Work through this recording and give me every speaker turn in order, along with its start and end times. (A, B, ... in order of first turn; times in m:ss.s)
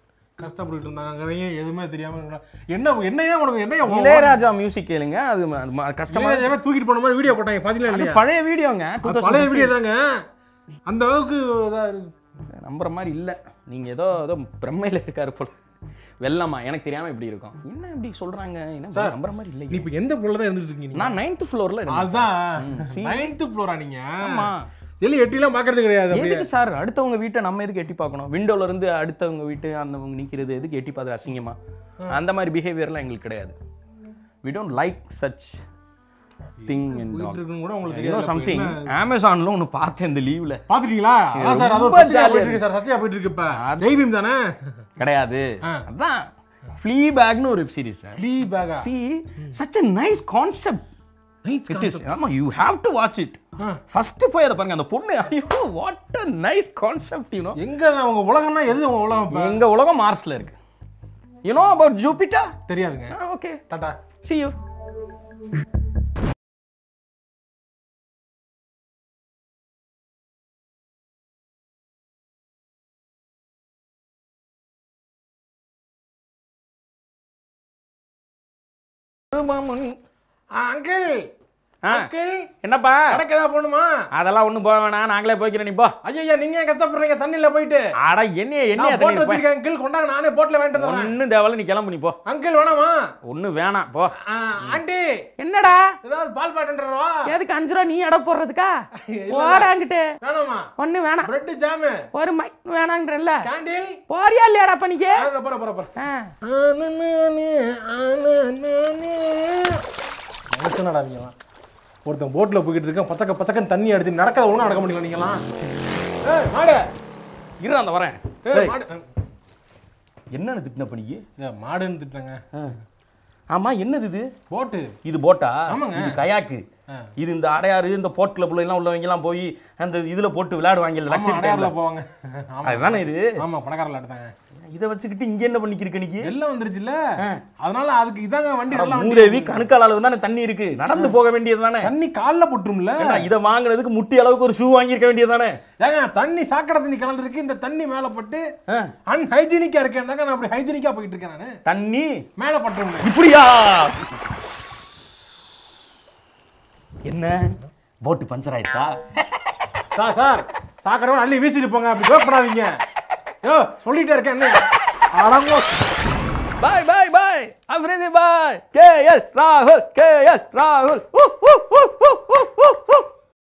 0:00.4-0:04.4 A
0:03.8-0:06.5 B
0:06.1-0:08.2 A
0:07.9-0:09.8 B
0:09.0-0:10.1 A
0:10.9-0:12.1 A
0:12.5-0:15.5 B
0:16.2-0:19.9 B
0:18.9-0:19.2 A
0:19.7-0:21.2 A
0:20.9-0:23.3 B
0:21.9-0:26.5 A
0:24.2-0:24.7 B
0:26.1-0:31.6 B
0:32.1-0:33.5 B
0:34.4-0:35.6 B
0:36.6-0:38.8 A
0:36.7-0:40.6 B
0:40.7-0:44.5 A
0:41.4-0:42.6 B
0:43.5-0:43.9 B
0:45.0-0:46.3 B
0:46.8-0:48.2 B
0:48.1-0:48.9 A
0:48.8-0:50.9 B
0:51.4-0:52.0 A
0:51.7-0:57.6 B
0:57.6-0:59.6 A
0:59.3-1:00.6 B
1:01.4-1:02.5 B
1:02.7-1:03.1 A
1:03.1-1:03.6 B
1:03.7-1:04.0 A
1:04.2-1:04.6 B
1:19.3-1:20.0 B
1:20.5-1:21.2 A
1:21.9-1:22.5 A
1:22.6-1:23.2 B
1:23.1-1:23.9 A
1:24.1-1:25.9 B
1:26.0-1:27.8 A
1:28.0-1:29.4 B
1:28.8-1:31.1 A
1:30.7-1:32.2 B
1:32.2-1:33.0 A
1:33.3-1:34.1 B
1:34.2-1:35.1 A
1:35.4-1:35.9 B
1:36.0-1:37.3 A
1:37.2-1:40.0 B
1:39.0-1:40.6 A
1:40.8-1:41.3 B
1:41.2-1:42.0 A
1:42.1-1:43.5 B
1:43.4-1:44.0 A
1:44.1-1:45.3 B
1:45.2-1:49.8 A
1:46.0-1:46.3 B
1:50.5-1:51.3 A
1:52.0-1:55.4 A
1:56.2-1:56.8 A
1:57.6-1:58.8 B
1:58.4-1:59.0 A
2:00.3-2:01.2 B
2:01.4-2:02.4 A
2:03.5-2:04.3 B
2:04.5-2:04.9 A
2:05.0-2:06.6 B
2:05.7-2:06.2 A
2:07.2-2:11.7 B
2:11.1-2:14.3 A
2:12.6-2:13.4 B
2:14.7-2:16.3 B
2:16.2-2:17.0 A
2:17.6-2:19.7 A
2:18.7-2:21.9 B
2:21.8-2:23.3 A
2:23.0-2:25.6 B
2:25.8-2:28.4 A
2:28.7-2:28.9 B
2:29.1-2:31.5 A
2:31.6-2:32.2 B
2:32.4-2:33.1 A
2:33.0-2:34.1 B
2:37.0-2:39.0 B
2:39.9-2:42.8 A
2:43.4-2:45.7 A
2:46.6-2:53.1 B